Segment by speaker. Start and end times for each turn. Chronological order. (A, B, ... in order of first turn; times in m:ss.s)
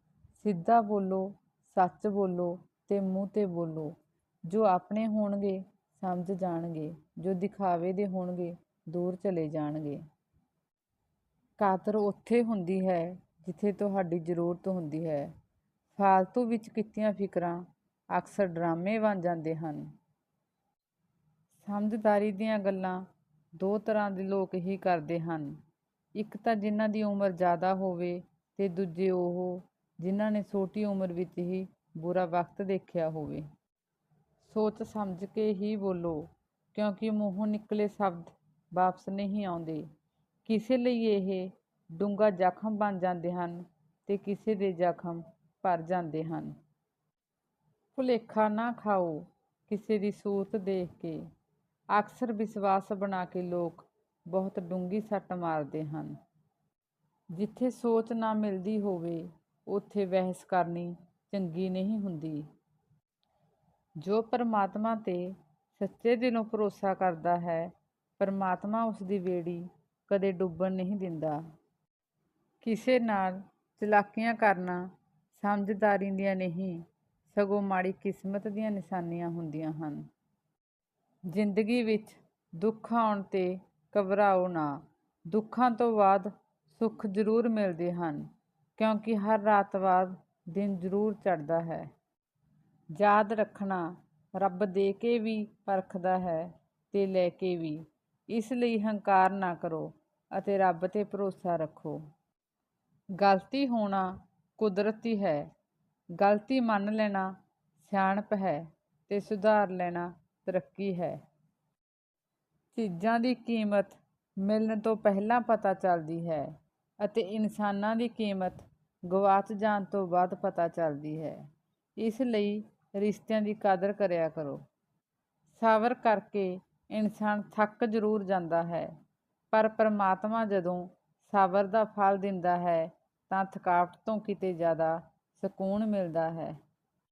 0:00.4-0:04.0 A
0:04.5-0:10.0 A
0:11.6-0:15.3 A
0:16.0-0:19.9 A
0:21.6-0:23.0 A
0:23.6-0:25.6 A
0:26.2-0:33.5 A
0:34.4-0:39.9 A
0:40.4-0:46.6 A
0:47.9-0:51.2 A
0:51.9-0:56.2 A
0:57.3-1:02.5 A
1:04.0-1:11.4 A
1:12.6-1:20.1 A
1:21.3-1:31.9 A
1:33.0-1:42.0 A
1:43.2-1:45.5 A
1:46.2-1:51.2 A
1:52.7-1:56.5 A
1:57.0-2:01.4 A
2:02.0-2:04.6 A
2:05.5-2:08.9 A
2:09.5-2:16.6 A